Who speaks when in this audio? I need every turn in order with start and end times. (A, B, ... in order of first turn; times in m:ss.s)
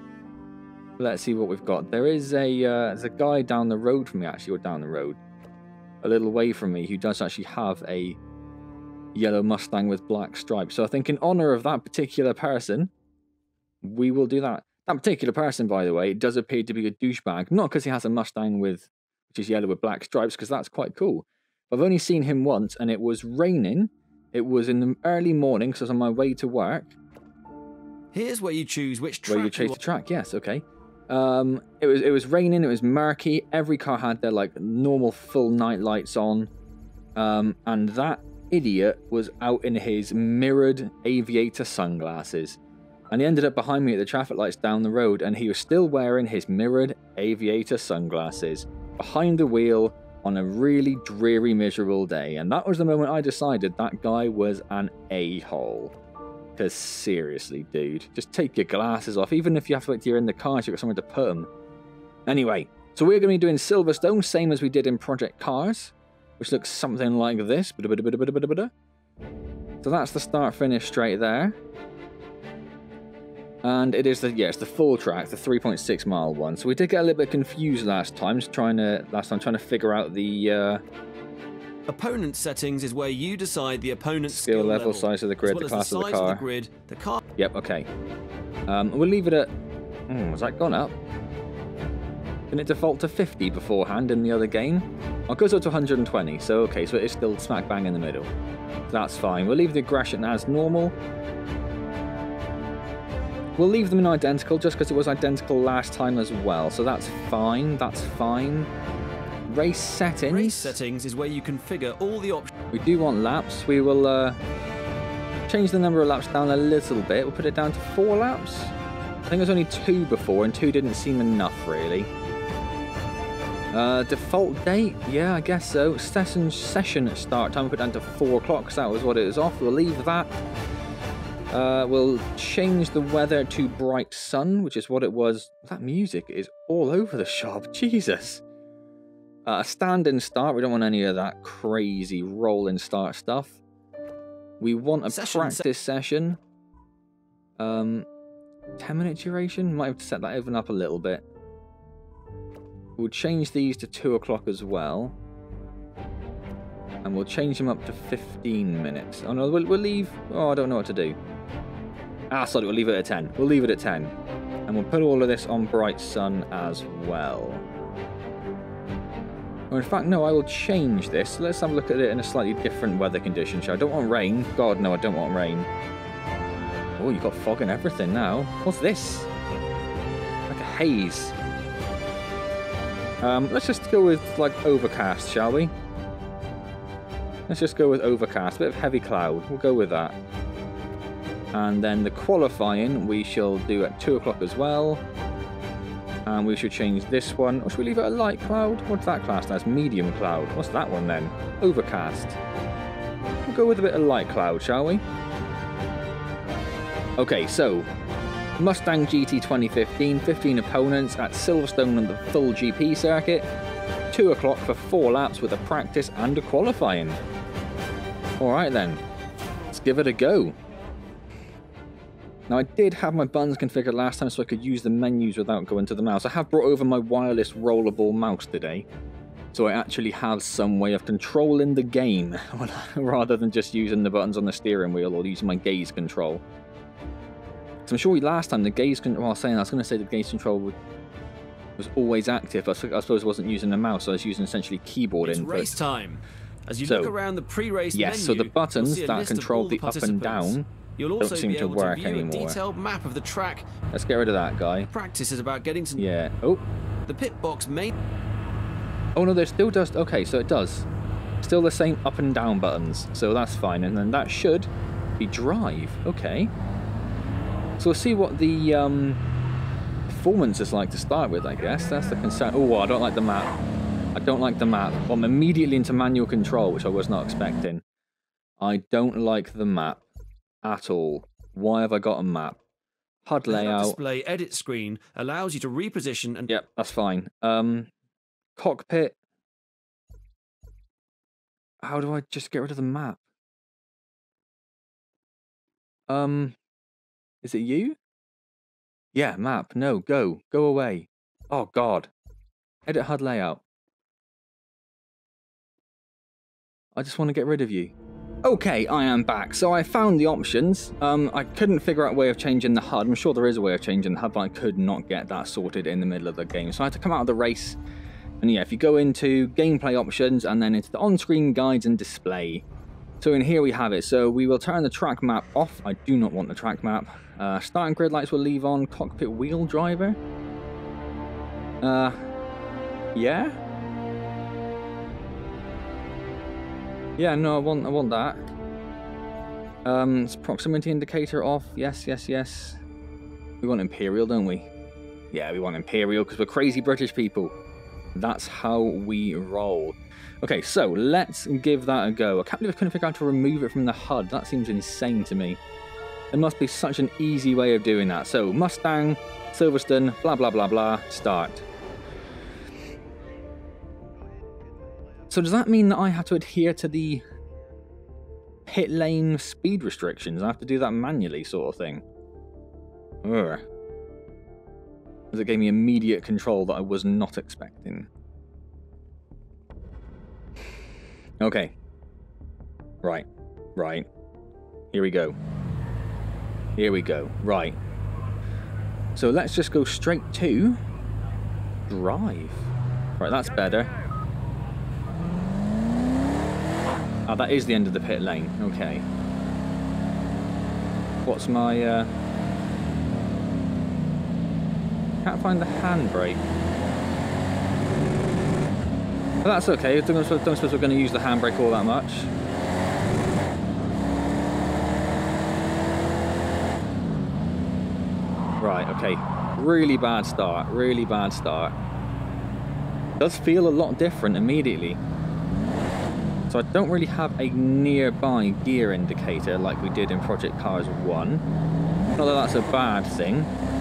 0:01.0-0:05.2 A
0:06.0-0:08.2 A
0:09.1-0:12.9 A
0:13.8-0:26.9 A
0:28.1-0:29.8 B
0:29.3-0:36.5 A
0:37.2-0:42.6 A
0:43.1-0:55.9 A
0:56.6-1:01.5 A
1:02.3-1:08.7 A
1:09.8-1:11.6 A
1:13.6-1:20.8 A
1:21.9-1:27.2 B
1:24.3-1:26.4 A
1:27.4-1:27.9 A
1:28.7-1:29.5 A
1:30.1-1:30.9 A
1:32.5-1:38.3 A
1:38.9-1:40.9 A
1:43.6-1:48.7 A
1:49.5-1:50.8 A
1:50.2-1:52.5 B
1:52.7-1:54.4 A
1:55.5-1:58.7 A
1:59.3-2:02.1 A
2:03.7-2:10.4 A
2:11.5-2:18.4 A
2:19.4-2:23.6 A
2:24.6-2:26.4 A
2:25.1-2:25.6 B
2:27.6-2:28.1 A
2:28.8-2:31.2 A
2:33.0-2:35.1 A
2:37.0-2:41.2 A
2:42.3-2:44.1 A
2:44.7-2:47.6 A
2:49.7-2:55.7 A
2:57.0-2:59.3 A
3:00.5-3:01.3 A
3:03.2-3:05.7 A
3:07.5-3:10.2 A
3:11.5-3:15.0 A
3:16.2-3:22.4 A
3:23.4-3:25.0 A
3:27.2-3:27.9 A
3:28.6-3:33.5 A
3:34.1-3:37.2 A
3:38.4-3:39.0 A
3:39.7-3:40.6 A
3:42.5-3:48.9 A
3:49.5-3:56.4 A
3:57.9-4:00.8 A
4:01.8-4:05.7 A
4:05.2-4:13.7 B
4:06.8-4:07.1 A
4:07.9-4:10.7 A
4:11.2-4:12.6 A
4:13.9-4:14.9 A
4:14.9-4:16.1 B
4:16.0-4:16.6 A
4:17.1-4:17.9 B
4:19.2-4:20.9 A
4:21.4-4:26.5 A
4:27.8-4:29.2 A
4:30.1-4:33.6 A
4:34.2-4:37.8 A
4:38.6-4:40.0 A
4:40.6-4:42.6 A
4:43.2-4:44.0 A
4:43.5-4:46.5 B
4:46.5-4:47.9 A
4:48.6-4:49.1 A
4:51.8-4:53.2 A
4:56.1-4:56.6 A
4:57.4-4:58.0 A
4:59.1-5:02.1 A
5:02.9-5:03.6 A
5:06.9-5:17.8 A
5:18.4-5:22.6 A
5:23.2-5:30.2 A
5:31.8-5:32.2 A
5:33.1-5:33.6 A
5:37.2-5:38.4 A
5:39.8-5:42.8 A
5:43.6-5:44.7 A
5:45.3-5:47.5 A
5:48.1-5:55.6 A
5:56.3-6:01.6 A
6:05.3-6:07.2 A
6:08.7-6:12.0 A
6:13.2-6:13.6 A
6:15.3-6:18.1 A
6:21.4-6:21.7 A
6:23.0-6:24.1 A
6:24.9-6:25.4 A
6:26.8-6:27.8 A
6:29.2-6:30.8 A
6:31.9-6:33.9 A
6:37.3-6:39.0 A
6:41.2-6:42.1 A
6:45.2-6:46.4 A
6:49.4-6:52.3 A
6:58.6-7:01.8 A
7:03.2-7:05.0 A
7:06.5-7:11.4 A
7:12.2-7:13.5 A